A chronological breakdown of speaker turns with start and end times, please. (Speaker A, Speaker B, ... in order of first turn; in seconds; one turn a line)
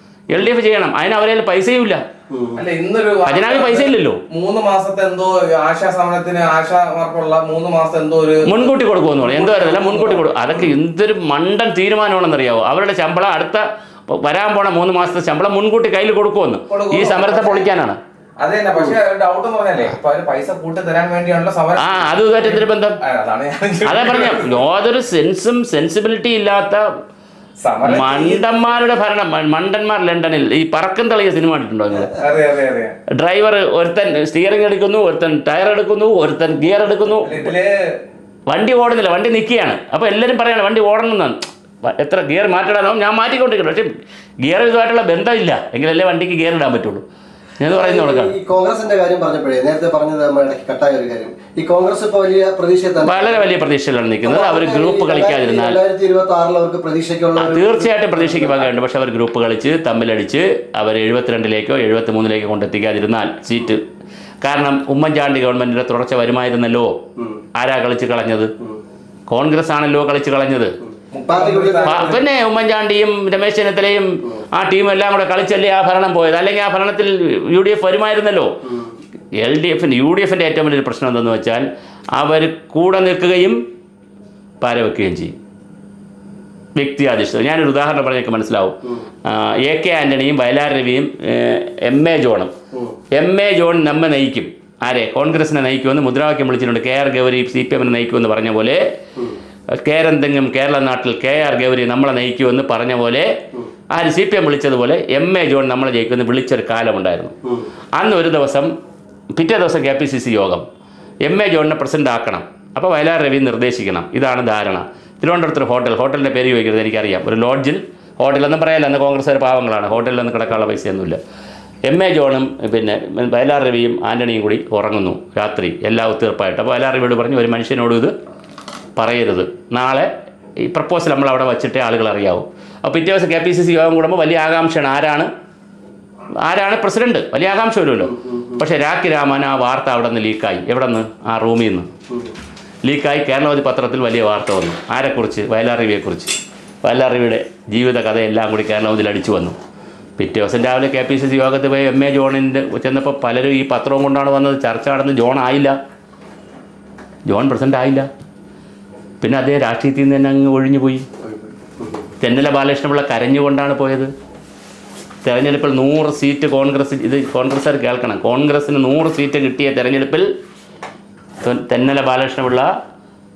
Speaker A: 0.3-2.0
Speaker B: 2.3-2.6
Speaker C: 2.5-10.7
Speaker A: 3.2-4.2
Speaker A: 8.4-18.0
Speaker C: 16.7-17.7
Speaker C: 18.4-24.6
Speaker A: 21.8-23.0
Speaker A: 23.8-26.8
Speaker C: 27.6-28.4
Speaker A: 27.8-32.2
Speaker C: 32.0-33.0
Speaker A: 33.1-37.5
Speaker C: 37.1-38.0
Speaker A: 38.5-43.9
Speaker A: 44.4-47.0
Speaker A: 47.6-48.3
Speaker B: 47.7-53.5
Speaker A: 53.0-55.8
Speaker B: 54.2-58.7
Speaker A: 57.4-63.8
Speaker A: 64.4-66.9
Speaker A: 67.5-68.5
Speaker A: 69.3-70.7
Speaker C: 71.1-72.2
Speaker B: 71.3-72.1
Speaker A: 71.8-78.6
Speaker B: 78.6-78.9
Speaker A: 79.4-81.7
Speaker A: 82.2-83.6
Speaker A: 84.6-85.3
Speaker A: 86.8-92.5
Speaker A: 93.1-98.8
Speaker A: 99.8-103.3
Speaker A: 103.9-107.3
Speaker A: 108.0-108.7
Speaker A: 109.3-110.6
Speaker A: 111.2-121.2
Speaker A: 121.9-128.1
Speaker A: 129.0-130.1
Speaker A: 130.6-135.3
Speaker A: 136.4-141.9
Speaker B: 138.1-138.6
Speaker A: 142.8-149.6
Speaker A: 150.2-155.7
Speaker A: 157.3-158.1
Speaker A: 159.2-161.1
Speaker B: 161.2-162.0
Speaker A: 162.2-164.1
Speaker A: 165.2-170.3
Speaker A: 171.4-172.7